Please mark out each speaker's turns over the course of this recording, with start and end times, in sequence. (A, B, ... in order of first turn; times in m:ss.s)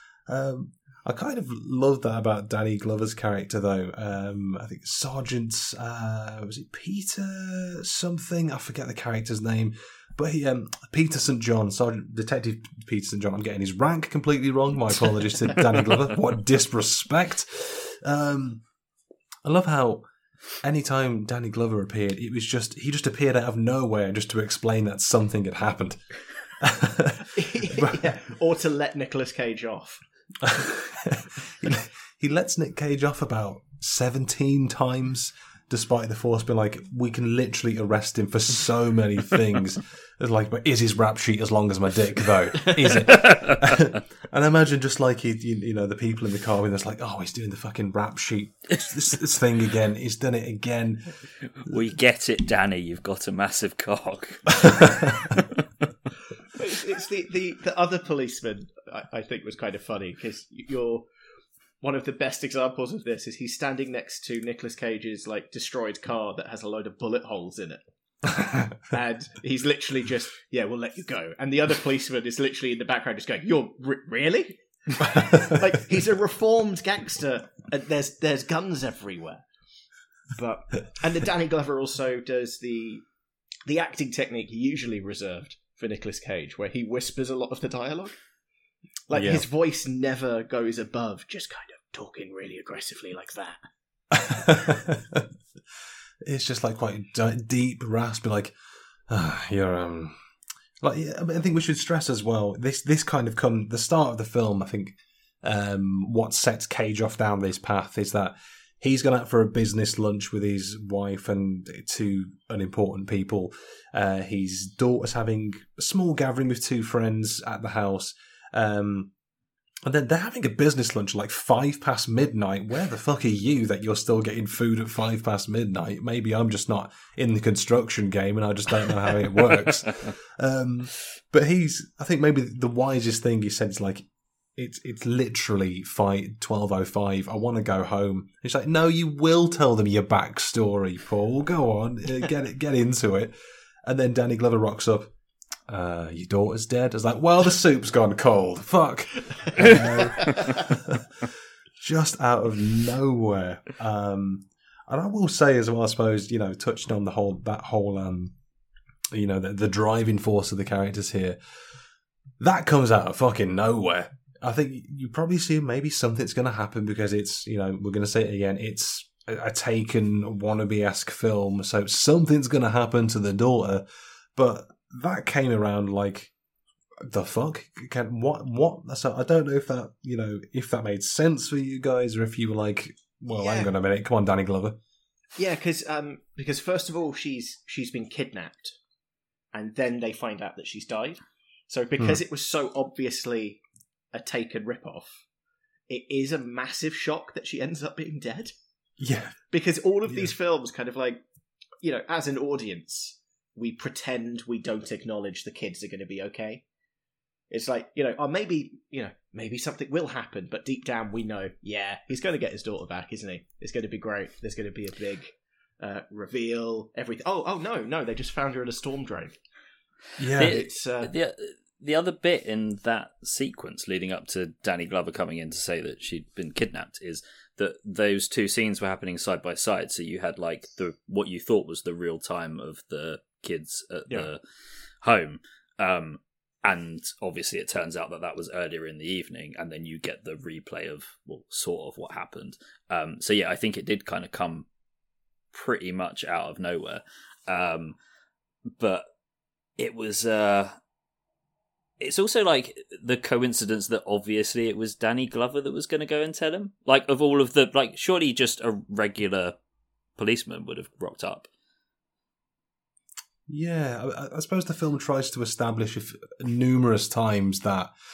0:00.3-0:18.6 A
0:19.4-0:20.0 A
0:20.6-0:28.1 A
0:27.3-0:30.0 B
0:30.4-0:51.1 A
0:43.1-0:43.6 C
0:51.5-0:55.5 C
0:56.5-1:01.1 B
1:01.8-1:07.8 B
1:08.8-1:19.4 B
1:20.3-1:23.0 B
1:23.6-1:28.2 B
1:29.1-1:33.6 B
1:29.1-1:29.4 A
1:34.1-1:35.3 A
1:36.2-1:38.5 A
1:39.1-1:40.2 A
1:40.8-1:59.1 A
1:59.8-2:23.3 A
2:23.8-2:25.1 A
2:25.7-2:38.3 A
2:29.6-2:30.5 B
2:39.1-2:41.4 A
2:42.4-2:53.8 A
2:54.4-2:56.3 A
2:57.0-3:04.8 A
3:03.3-3:03.7 B
3:05.4-3:08.8 B
3:09.5-3:13.6 B
3:14.1-3:15.2 B
3:15.9-3:18.5 B
3:19.0-3:19.4 A
3:19.5-3:21.2 B
3:21.8-3:26.6 B
3:27.5-3:39.4 B
3:40.2-3:40.6 A
3:40.4-3:54.4 C
3:40.4-3:41.1 B
3:55.0-4:04.7 C
4:05.5-4:08.0 C
4:08.8-4:09.0 C
4:09.8-4:10.8 C
4:12.0-4:19.6 C
4:20.2-4:21.5 C
4:23.5-4:27.9 A